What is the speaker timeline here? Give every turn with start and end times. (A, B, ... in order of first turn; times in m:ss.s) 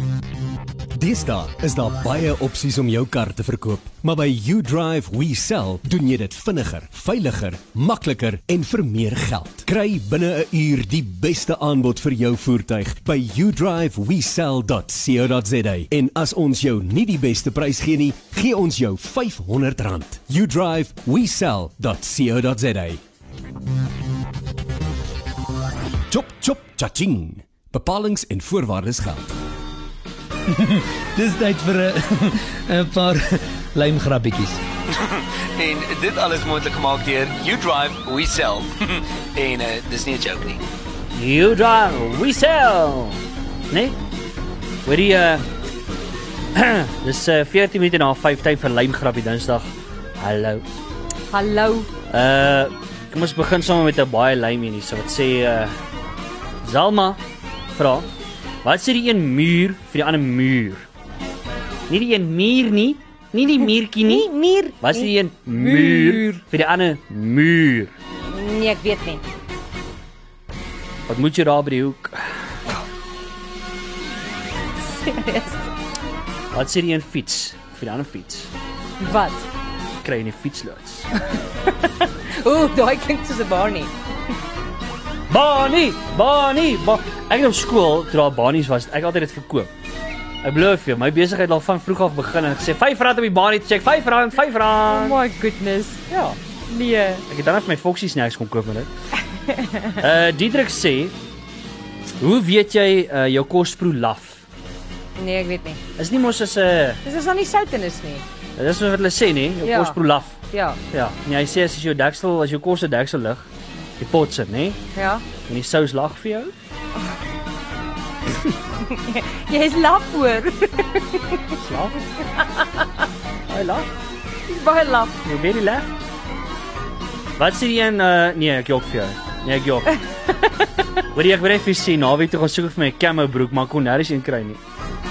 0:01.0-0:23.0 A
0:26.1-0:29.3 A
0:30.5-0:34.6 B
0:35.0-0:40.6 C
0:41.1-0:44.0 D
0:44.9-0:45.4 D
0:46.6-0:50.6 D
0:51.3-0:51.9 E
0:52.1-0:55.8 D
0:56.6-0:58.1 D
0:58.6-1:00.9 D
1:01.9-1:04.3 D
1:04.0-1:06.4 E
1:04.8-1:07.9 D
1:08.3-1:09.2 E
1:11.1-1:12.2 D
1:14.8-1:15.7 E
1:16.5-1:18.5 D
1:19.0-1:19.5 E
1:20.0-1:21.1 D
1:21.3-1:23.9 E
1:25.3-1:29.7 D
1:30.4-1:35.2 D
1:34.9-1:36.0 E
1:36.1-1:36.4 D
1:36.7-1:37.2 E
1:37.3-1:38.9 D
1:39.4-1:39.9 E
1:40.0-1:41.2 D
1:42.2-1:44.4 D
1:45.2-1:45.8 E
1:46.0-1:47.0 D
1:47.0-1:48.2 E
1:48.6-1:53.5 D
1:49.6-1:50.8 E
1:54.0-1:54.8 D
1:55.0-1:55.2 E
1:55.4-1:56.5 D
1:58.8-2:01.5 E
2:01.6-2:02.0 D
2:02.2-2:02.9 E
2:03.5-2:03.9 D
2:04.5-2:05.2 E
2:05.2-2:05.9 D
2:07.4-2:10.0 D
2:09.9-2:10.7 E
2:11.1-2:14.6 D